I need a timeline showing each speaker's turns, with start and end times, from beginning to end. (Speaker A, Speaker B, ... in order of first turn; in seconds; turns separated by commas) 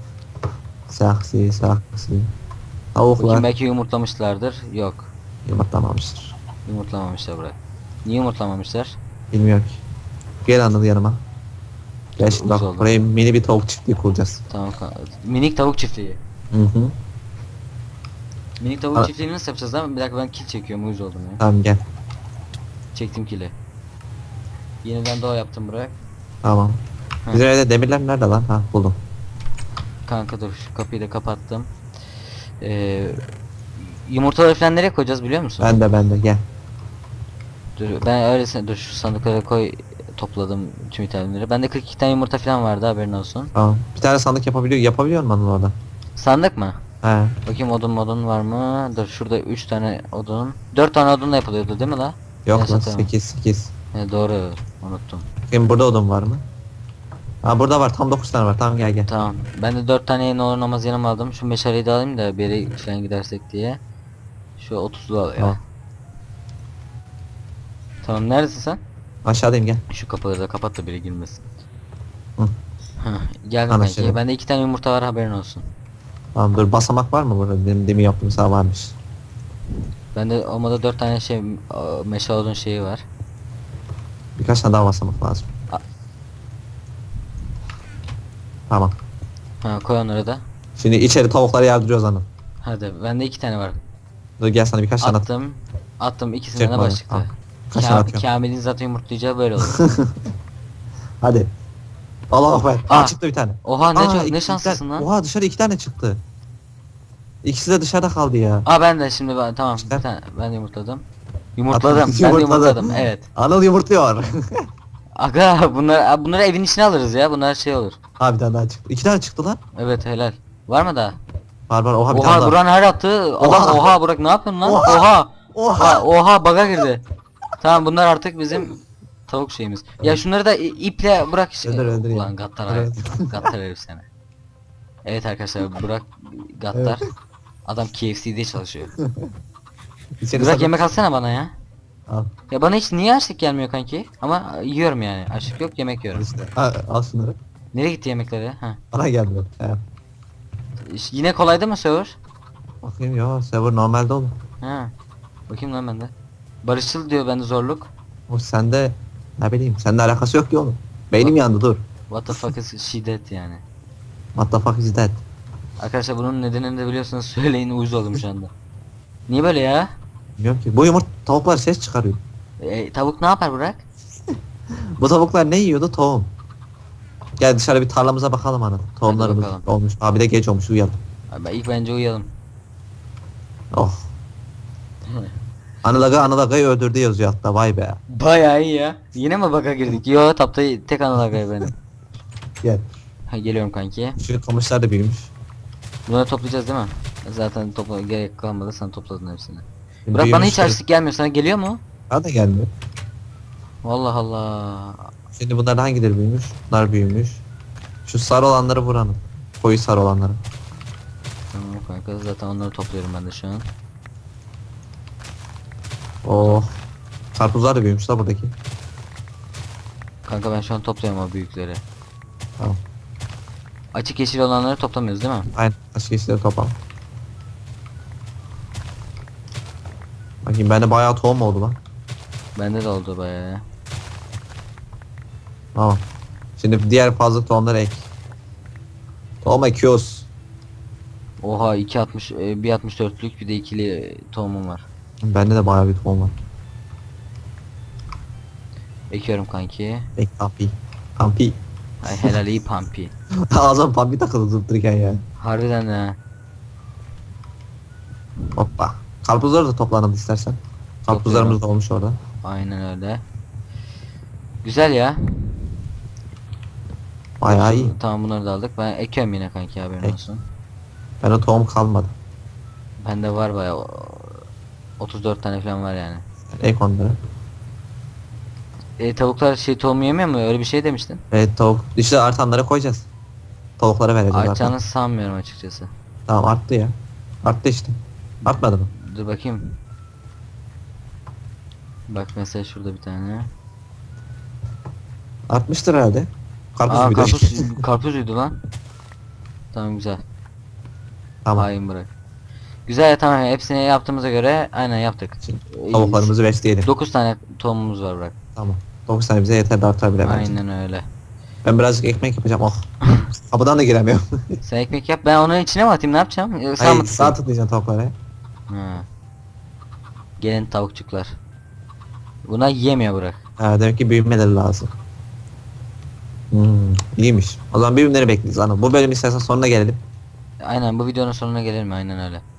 Speaker A: 0.9-2.3, Speaker A: 2.9-3.5, Speaker B: 3.1-5.1, Speaker A: 5.5-6.3, Speaker B: 6.7-9.0, Speaker A: 9.3-9.8, Speaker A: 10.4-11.2, Speaker A: 12.2-14.4, Speaker B: 12.2-13.0, Speaker B: 14.5-16.2, Speaker A: 16.5-16.9, Speaker B: 18.6-21.4, Speaker A: 21.4-21.8, Speaker B: 22.9-23.5, Speaker B: 24.8-25.9, Speaker A: 26.4-26.8, Speaker A: 27.3-29.0, Speaker B: 30.1-31.7, Speaker B: 32.6-33.2, Speaker B: 34.0-35.8, Speaker A: 35.6-36.4, Speaker B: 37.8-43.5, Speaker A: 43.5-45.7, Speaker B: 46.2-46.8, Speaker A: 47.0-47.4, Speaker B: 47.4-53.1, Speaker A: 52.5-53.7, Speaker B: 53.9-55.3, Speaker A: 55.5-56.4, Speaker A: 57.4-59.1, Speaker B: 59.1-63.8, Speaker B: 64.6-65.6, Speaker B: 68.0-68.8, Speaker A: 69.2-69.8, Speaker B: 69.9-71.4, Speaker B: 73.0-75.7, Speaker A: 73.7-74.2, Speaker A: 76.3-78.9, Speaker B: 80.1-83.0, Speaker A: 84.4-85.5, Speaker A: 88.7-88.9, Speaker B: 89.6-90.4, Speaker A: 90.8-92.2, Speaker B: 92.6-93.8, Speaker A: 94.4-95.2, Speaker B: 95.0-99.8, Speaker A: 96.5-98.2, Speaker A: 99.6-100.1, Speaker A: 101.2-101.5, Speaker A: 102.3-106.2, Speaker B: 102.9-105.1, Speaker A: 107.4-108.6, Speaker B: 108.7-111.0, Speaker A: 109.8-110.0, Speaker B: 111.6-113.3, Speaker A: 111.7-114.7, Speaker B: 115.2-118.0, Speaker A: 118.2-119.6, Speaker B: 119.8-121.2, Speaker A: 121.7-122.6, Speaker B: 122.1-127.0, Speaker A: 123.4-123.9, Speaker A: 124.6-126.0, Speaker B: 127.6-134.1, Speaker A: 131.6-133.5, Speaker B: 135.1-137.1, Speaker A: 136.7-137.0, Speaker B: 137.7-138.9, Speaker A: 139.0-139.3, Speaker A: 140.2-140.8, Speaker B: 140.3-141.5, Speaker B: 142.5-146.2, Speaker A: 146.1-147.4, Speaker B: 147.7-148.8, Speaker A: 148.9-149.8, Speaker B: 150.8-152.2, Speaker A: 152.8-154.3, Speaker B: 154.6-154.9, Speaker B: 155.5-156.1, Speaker B: 156.6-157.9, Speaker A: 158.3-161.8, Speaker B: 162.1-163.6, Speaker A: 164.3-165.2, Speaker B: 165.8-168.5, Speaker B: 169.3-169.9, Speaker A: 170.4-172.2, Speaker B: 172.6-173.8, Speaker A: 175.0-176.3, Speaker A: 177.4-181.0, Speaker B: 179.0-179.7, Speaker B: 181.3-182.3, Speaker A: 183.7-184.1, Speaker B: 185.1-185.3, Speaker A: 185.8-188.0, Speaker B: 188.1-191.7, Speaker A: 192.6-192.9, Speaker B: 193.3-194.2, Speaker A: 194.2-195.3, Speaker B: 196.1-201.8, Speaker A: 200.1-200.8, Speaker A: 202.1-202.7, Speaker B: 203.8-205.1, Speaker A: 205.3-207.4, Speaker A: 208.1-210.4, Speaker B: 211.5-213.7, Speaker A: 216.2-216.7, Speaker A: 217.3-218.5, Speaker B: 220.3-221.8, Speaker B: 223.9-225.5, Speaker A: 225.6-226.7, Speaker A: 230.4-231.8, Speaker B: 232.6-233.6, Speaker A: 235.8-236.0, Speaker A: 236.6-238.1, Speaker A: 239.4-240.3, Speaker B: 241.4-244.8, Speaker A: 245.2-246.3, Speaker B: 249.1-250.1, Speaker A: 250.2-251.6, Speaker B: 252.0-253.1, Speaker A: 252.1-252.3, Speaker A: 253.5-255.2, Speaker B: 255.4-256.2, Speaker A: 258.5-262.2, Speaker B: 261.1-261.6, Speaker B: 262.4-263.2, Speaker B: 264.6-265.8, Speaker A: 267.4-267.9, Speaker B: 267.4-270.4, Speaker A: 271.2-272.1, Speaker B: 273.0-274.4, Speaker B: 275.0-276.2, Speaker A: 276.5-277.2, Speaker B: 279.0-281.2, Speaker A: 281.3-283.1, Speaker A: 283.8-284.7, Speaker B: 284.3-285.9, Speaker A: 286.3-288.9, Speaker B: 288.4-289.8, Speaker B: 292.1-293.5, Speaker A: 295.5-297.8, Speaker B: 296.9-298.6, Speaker B: 299.7-300.2, Speaker B: 301.6-302.1, Speaker B: 302.9-306.3, Speaker A: 305.4-306.9, Speaker B: 306.8-308.3, Speaker A: 308.6-310.5, Speaker B: 310.2-311.0, Speaker A: 311.6-314.6, Speaker B: 314.6-317.4, Speaker A: 316.8-318.1, Speaker B: 318.7-319.1, Speaker B: 320.4-321.3, Speaker B: 322.4-323.4, Speaker A: 323.6-324.9, Speaker A: 326.5-330.0, Speaker B: 330.6-332.4